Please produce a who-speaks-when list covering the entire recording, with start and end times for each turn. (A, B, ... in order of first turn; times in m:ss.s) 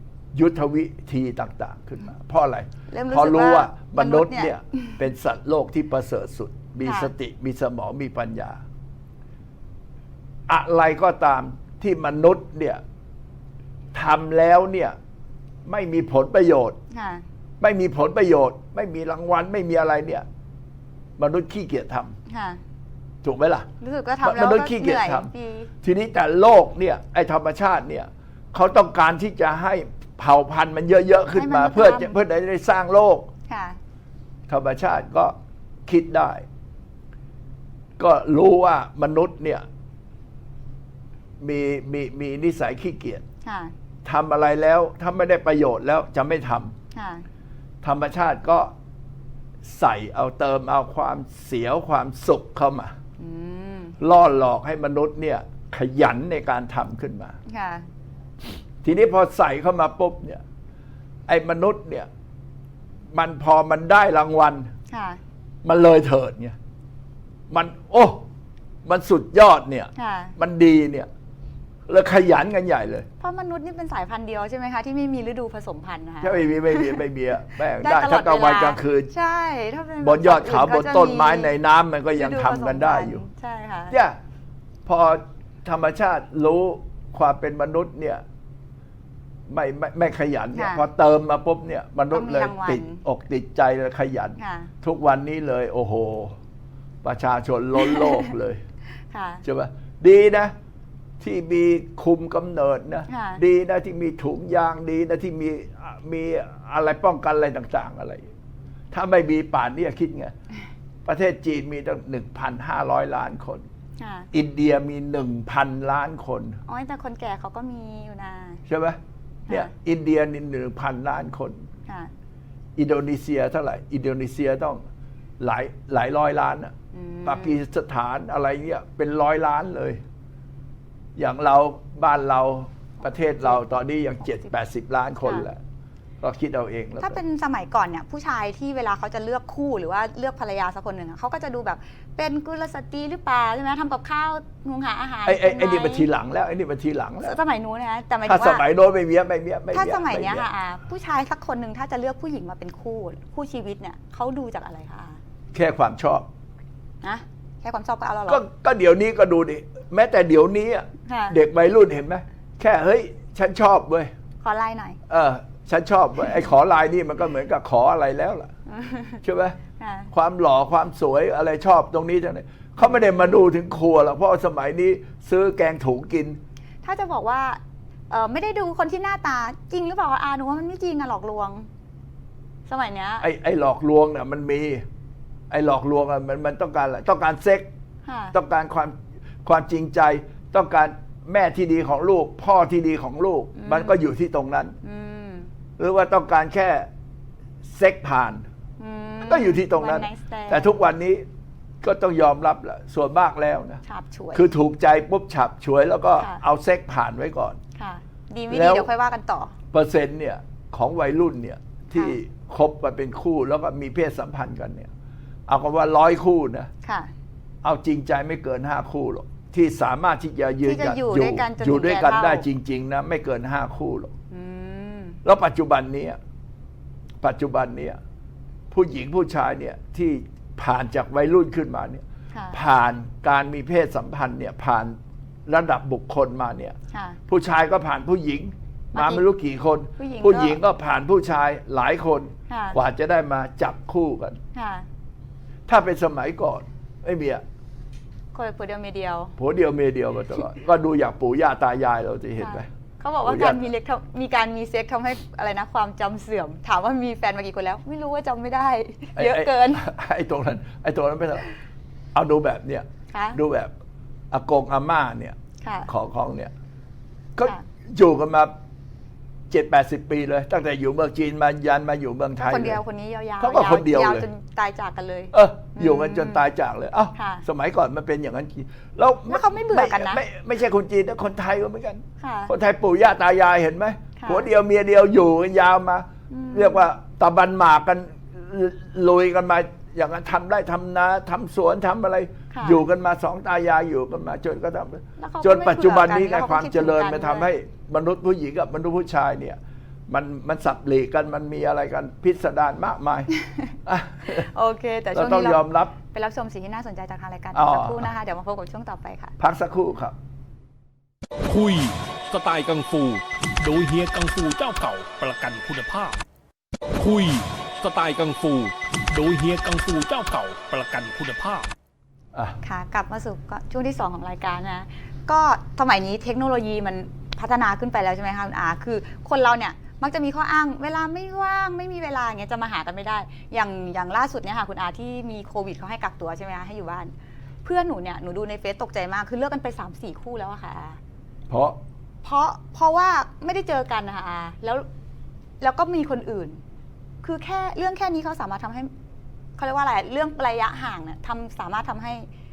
0:00.3-0:08.6 A
0:02.9-0:05.0 B
0:06.8-0:07.1 B
0:10.5-0:12.8 A
0:13.9-0:15.0 A
0:15.6-0:16.8 A
0:16.9-0:17.2 B
0:17.6-0:20.2 A
0:21.2-0:22.2 A
0:22.3-0:22.6 B
0:23.2-0:23.7 A
0:23.8-0:25.7 B
0:24.2-0:25.3 A
0:25.8-0:33.3 A
0:31.3-0:32.2 B
0:33.5-0:33.8 B
0:34.5-0:36.4 A
0:38.0-0:39.6 A
0:41.4-0:43.2 A
0:43.4-0:43.7 B
0:44.0-0:46.8 A
0:46.9-0:47.2 B
0:47.8-0:48.7 A
0:49.6-0:52.9 A
0:53.2-0:54.0 B
0:54.0-0:57.4 A
0:57.5-0:57.8 B
0:58.8-1:00.4 A
1:01.3-1:02.1 A
1:03.1-1:04.7 A
1:04.9-1:05.2 B
1:05.6-1:06.6 A
1:07.5-1:08.3 A
1:08.8-1:11.1 A
1:10.0-1:10.3 B
1:11.9-1:13.1 A
1:13.2-1:17.0 B
1:16.2-1:19.1 A
1:17.7-1:21.5 B
1:20.0-1:23.2 A
1:22.2-1:23.9 B
1:23.9-1:24.2 A
1:24.8-1:28.2 A
1:29.5-1:36.4 A
1:30.5-1:30.8 B
1:32.1-1:33.0 B
1:34.4-1:34.7 B
1:37.0-1:38.6 A
1:37.8-1:38.2 B
1:39.1-1:39.4 B
1:39.4-1:40.5 A
1:41.2-1:48.3 A
1:43.1-1:43.4 B
1:48.9-1:50.3 A
1:51.0-1:53.6 A
1:54.0-1:54.3 B
1:54.3-1:56.6 A
1:56.6-1:58.6 B
1:58.7-1:59.0 A
1:59.5-2:01.6 A
2:02.8-2:04.8 A
2:05.4-2:06.7 A
2:06.9-2:07.6 B
2:07.2-2:10.0 A
2:11.2-2:15.6 A
2:16.2-2:17.2 A
2:17.0-2:26.1 B
2:25.2-2:27.4 A
2:27.2-2:28.6 B
2:28.2-2:30.5 A
2:29.7-2:35.2 B
2:35.5-2:36.3 A
2:37.0-2:38.4 B
2:38.3-2:44.1 A
2:41.1-2:41.4 B
2:44.4-2:45.0 B
2:45.1-2:48.5 A
2:48.7-2:49.2 B
2:49.2-2:49.6 A
2:49.8-2:50.1 B
2:50.1-2:56.4 A
2:52.8-2:53.4 B
2:56.8-3:01.7 B
3:02.7-3:03.3 B
3:03.2-3:04.8 A
3:05.5-3:07.7 A
3:08.0-3:08.3 B
3:08.3-3:14.7 A
3:13.5-3:13.9 B
3:14.8-3:15.5 B
3:15.8-3:16.9 A
3:17.6-3:18.4 A
3:18.8-3:20.6 B
3:19.2-3:21.2 A
3:21.8-3:23.8 A
3:23.8-3:24.5 B
3:24.3-3:27.6 A
3:27.8-3:29.5 B
3:28.5-3:28.9 A
3:29.7-3:34.9 A
3:35.5-3:36.7 A
3:36.8-3:37.1 B
3:37.6-3:44.1 A
3:40.6-3:42.4 B
3:44.3-3:45.2 B
3:45.2-3:46.2 A
3:47.2-3:48.0 A
3:48.7-3:56.8 A
3:52.3-3:52.6 B
3:56.9-3:57.2 B
3:57.3-4:04.4 A
3:58.9-3:59.2 B
4:00.0-4:00.6 B
4:02.5-4:02.8 B
4:04.5-4:04.8 B
4:05.7-4:07.4 A
4:08.3-4:09.3 B
4:09.4-4:12.7 A
4:12.4-4:19.8 B
4:13.2-4:13.6 A
4:19.2-4:21.5 A
4:22.1-4:23.7 A
4:23.1-4:23.4 B
4:24.3-4:25.4 A
4:25.6-4:25.9 B
4:25.9-4:26.5 A
4:27.3-4:28.5 A
4:29.5-4:32.8 A
4:32.4-4:36.4 B
4:33.4-4:34.2 A
4:35.3-5:03.3 A
4:37.1-4:37.4 B
4:39.3-4:40.2 B
4:42.2-4:42.5 B
4:44.2-4:44.5 B
4:46.3-4:46.9 B
4:52.5-4:52.8 B
4:55.2-4:57.5 B
5:03.4-5:03.7 B
5:03.8-5:04.5 A
5:04.3-5:09.3 B
5:05.1-5:05.9 A
5:07.5-5:08.1 A
5:09.4-5:10.2 A
5:11.4-5:16.2 C
5:17.0-5:21.7 C
5:22.6-5:37.1 B
5:37.6-5:41.0 B
5:41.5-5:41.8 A
5:42.2-5:44.8 B
5:45.6-5:46.6 B
5:47.2-5:48.9 B
5:49.6-5:52.3 B